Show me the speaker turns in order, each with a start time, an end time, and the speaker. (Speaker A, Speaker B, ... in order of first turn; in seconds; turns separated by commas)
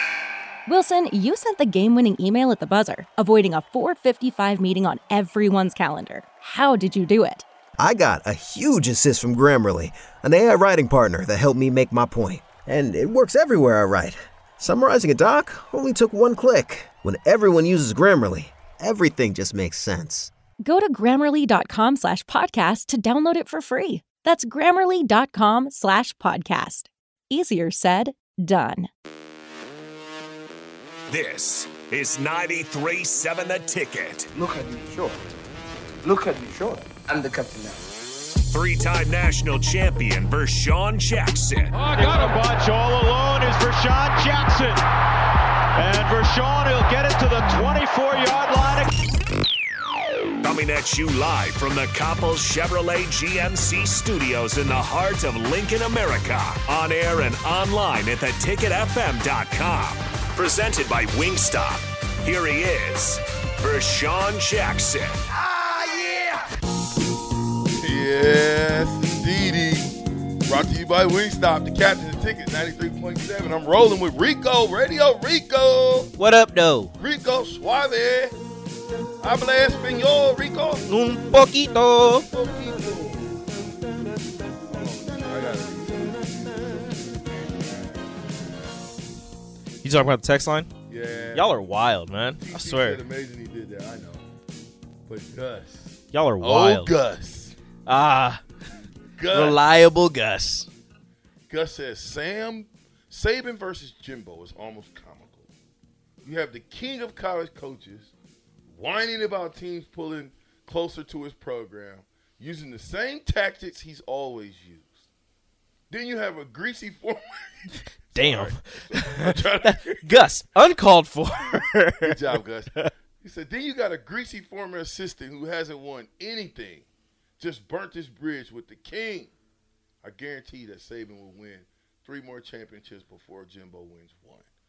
Speaker A: 0.7-7.4, Speaker B: 7.8-20.3, Speaker A: 20.6-28.9, Speaker C: 31.1-34.3, Speaker D: 34.3-35.1, Speaker D: 36.0-37.8, Speaker C: 38.4-41.8, Speaker E: 41.8-44.8, Speaker E: 45.7-48.9, Speaker C: 50.4-65.2, Speaker F: 67.7-69.9, Speaker F: 70.5-76.1, Speaker G: 76.2-76.9, Speaker F: 77.0-78.3, Speaker F: 79.2-80.9, Speaker G: 80.9-82.2, Speaker F: 82.0-83.5, Speaker F: 84.7-88.6, Speaker G: 89.8-90.7, Speaker F: 90.9-91.6, Speaker G: 91.3-93.0, Speaker F: 92.4-94.2, Speaker F: 95.1-97.5, Speaker G: 96.1-96.9, Speaker G: 97.8-98.4, Speaker F: 99.2-99.6, Speaker G: 99.3-100.7, Speaker F: 101.5-105.5, Speaker F: 106.2-108.1, Speaker F: 108.7-114.9, Speaker F: 115.9-117.5, Speaker F: 118.1-120.3, Speaker G: 118.1-122.2, Speaker F: 122.0-126.8, Speaker F: 127.4-129.3, Speaker F: 130.0-134.4